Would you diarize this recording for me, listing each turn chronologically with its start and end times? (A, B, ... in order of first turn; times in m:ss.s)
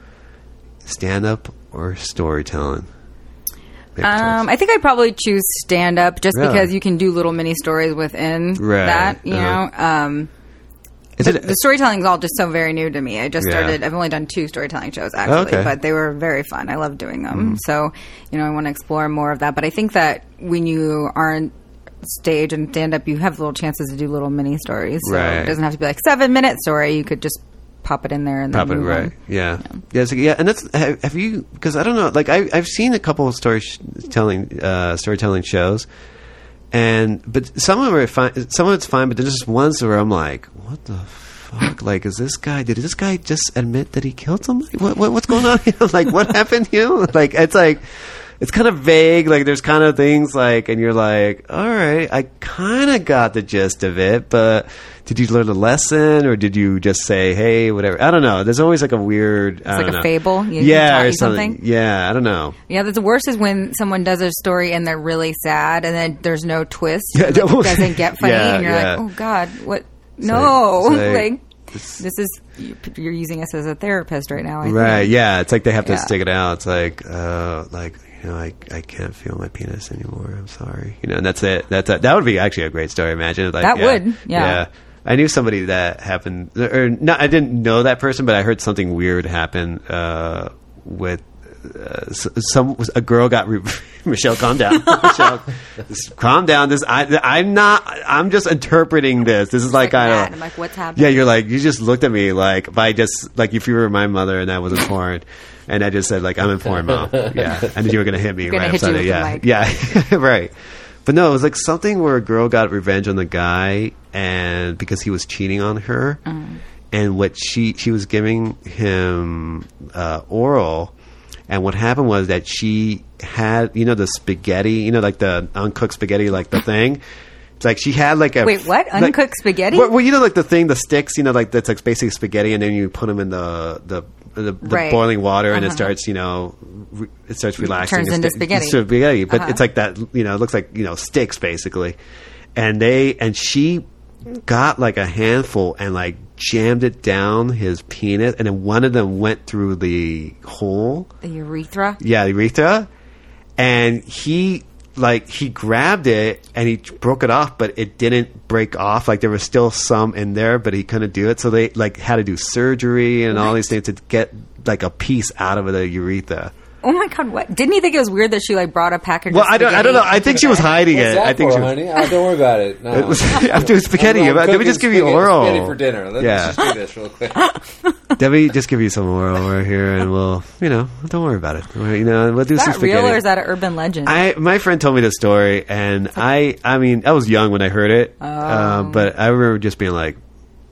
0:00.8-0:02.9 A
0:04.0-0:04.4 A
0:04.0-0:10.3 B
0:06.3-0:06.7 A
0:08.6-0:09.6 A
0:11.2-0:11.6 A
0:11.2-0:21.5 B
0:13.4-0:13.8 A
0:15.2-0:15.8 A
0:17.3-0:17.6 A
0:22.0-0:29.1 B
0:25.0-0:25.6 A
0:28.5-0:35.9 A
0:36.7-0:47.9 A
0:48.4-1:02.6 A
0:59.7-1:01.6 B
1:02.7-1:11.4 B
1:07.1-1:09.1 A
1:10.2-1:12.0 A
1:12.0-1:15.1 B
1:14.6-1:40.3 A
1:15.8-1:16.1 B
1:23.6-1:24.6 B
1:39.7-1:41.3 B
1:41.0-1:50.5 A
1:46.9-1:47.6 C
1:48.4-1:49.4 B
1:51.0-1:56.2 A
1:56.3-1:56.6 B
1:56.9-2:00.9 A
2:01.5-2:07.0 A
2:07.6-2:22.0 A
2:08.4-2:09.9 B
2:14.6-2:15.9 B
2:17.6-2:19.6 B
2:22.6-2:31.1 A
2:31.2-2:32.0 B
2:32.0-2:32.9 A
2:33.6-2:46.5 A
2:46.8-2:50.7 B
2:49.3-2:51.9 A
2:50.7-2:57.5 C
2:52.9-2:56.7 A
2:58.2-3:03.2 A
3:02.6-3:04.2 B
3:04.0-3:10.2 A
3:08.2-3:09.1 B